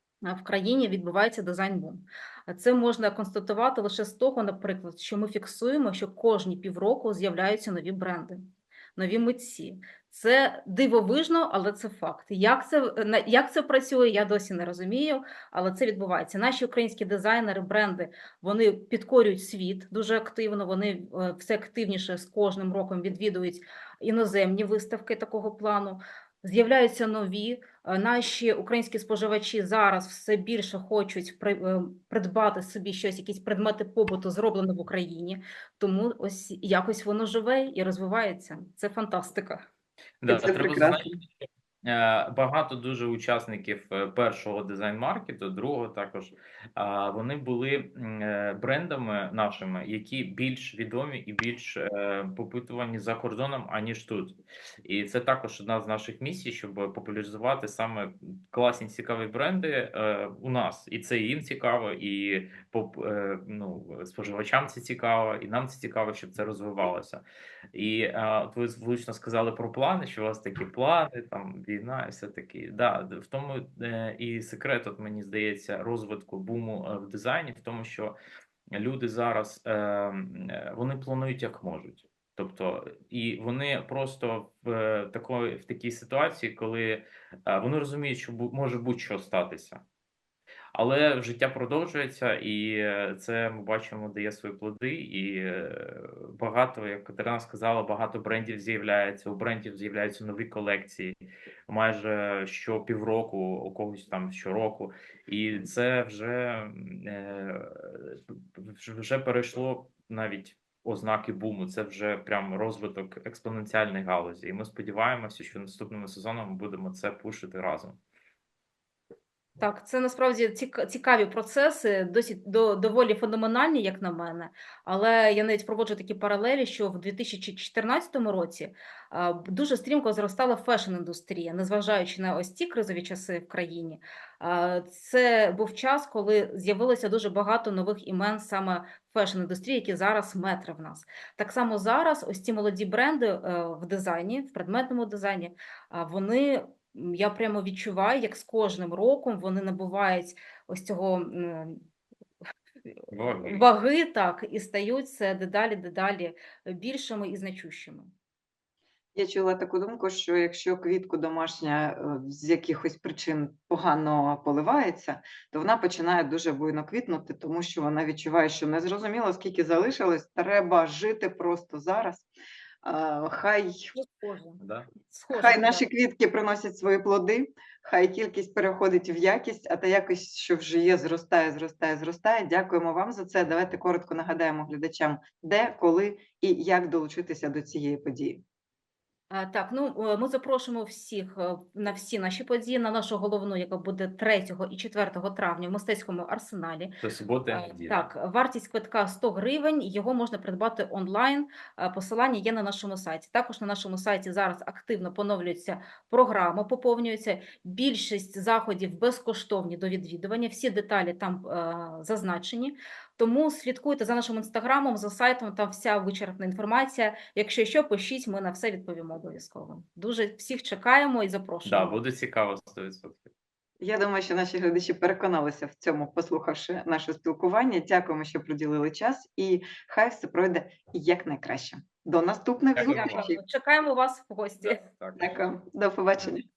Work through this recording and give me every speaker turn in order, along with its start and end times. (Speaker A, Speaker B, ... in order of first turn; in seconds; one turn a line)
Speaker A: 0.2-39.7
Speaker B: 40.2-41.3
Speaker C: 40.3-41.1
Speaker B: 41.9-78.2
Speaker B: 78.7-89.8
Speaker B: 90.7-101.2
Speaker B: 101.7-118.0
Speaker A: 119.6-151.8
Speaker B: 153.1-153.6
Speaker A: 153.4-158.1
Speaker C: 159.2-172.3
Speaker C: 172.8-173.9
Speaker A: 173.9-175.9
Speaker B: 174.6-174.9
Speaker C: 175.3-188.4
Speaker A: 189.3-197.0
Speaker B: 197.0-198.1
Speaker A: 197.5-222.0
Speaker B: 221.7-223.3
Speaker C: 223.8-233.4
Speaker B: 232.7-233.3
Speaker A: 232.9-234.8
Speaker B: 234.6-235.4
Speaker C: 235.2-236.4